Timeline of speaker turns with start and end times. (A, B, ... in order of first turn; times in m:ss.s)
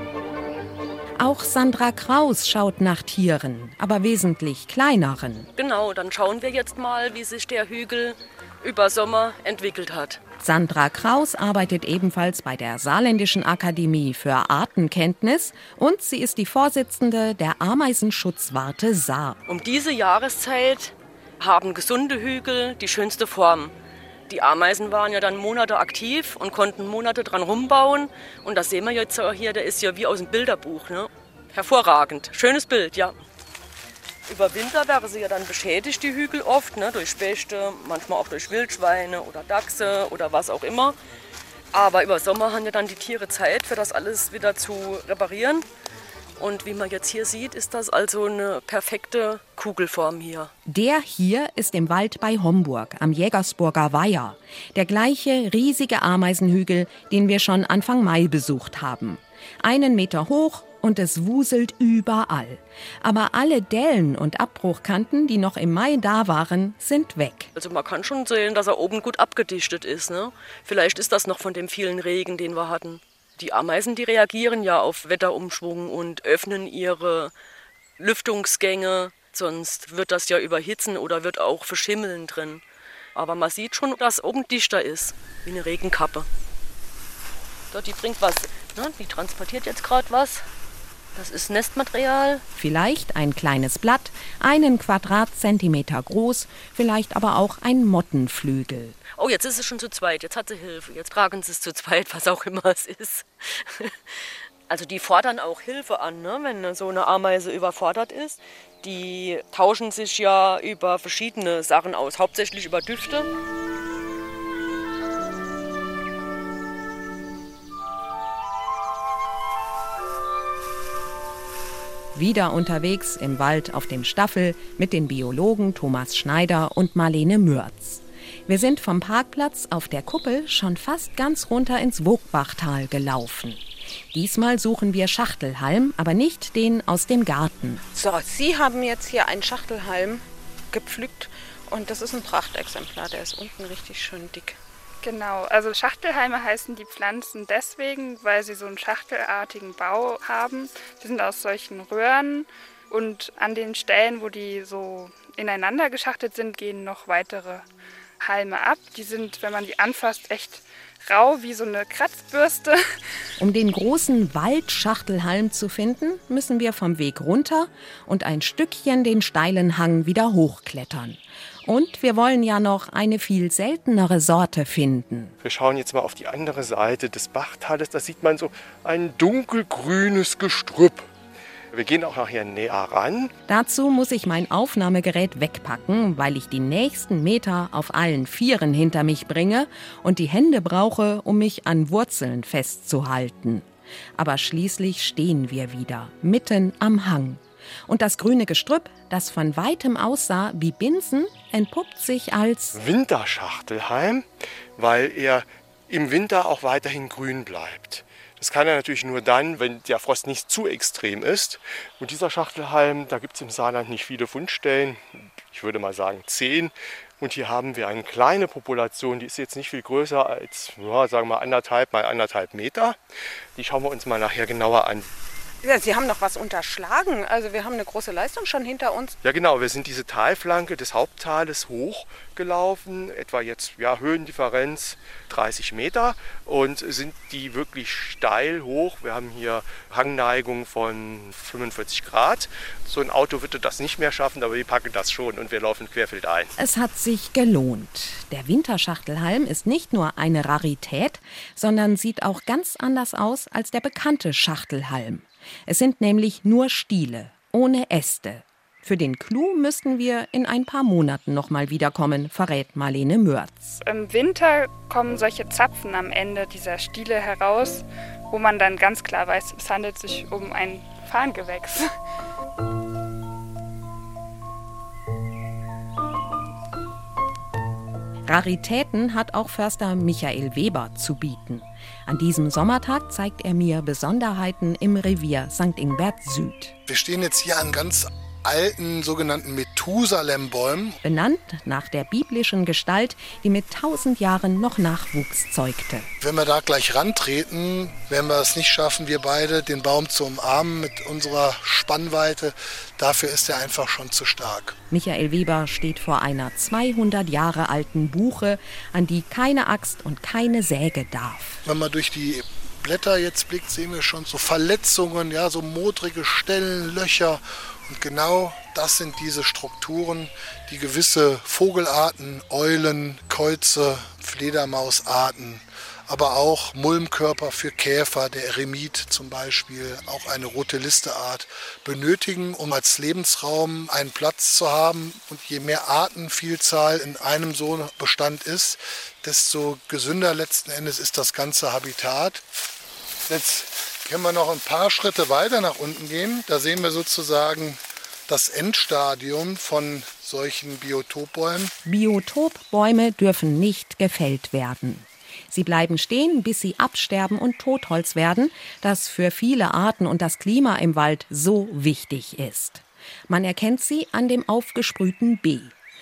0:01.2-0:05.5 A
0:05.6-0:10.2 B
0:10.4-0:19.4 A
0:19.5-0:23.7 B
0:24.3-0:33.2 B
0:34.3-0:41.0 B
0:41.7-0:45.6 B
0:46.4-0:50.5 B
0:50.6-1:07.5 A
1:07.6-1:17.3 B
1:18.0-1:22.6 B
1:23.1-1:26.3 B
1:27.7-1:30.4 B
1:31.1-1:32.4 B
1:32.6-1:39.0 A
1:39.2-1:53.3 B
2:02.1-2:17.8 A
2:17.9-2:24.6 C
2:25.0-2:37.6 D
2:38.2-2:43.0 D
2:43.4-2:55.3 A
2:55.4-3:01.1 E
3:01.7-3:03.3 E
3:03.5-3:13.6 A
3:14.2-3:22.8 A
3:22.7-3:43.0 E
3:43.5-3:45.1 E
3:45.6-3:49.2 C
3:49.2-4:06.5 E
4:06.6-4:23.8 A
4:23.8-4:32.0 D
4:38.3-4:46.7 A
4:46.9-4:51.0 F
4:51.0-4:56.1 A
4:56.2-5:04.8 F
5:04.9-5:11.6 A
5:11.6-5:42.4 F
5:43.3-5:51.7 F
5:51.8-6:05.7 A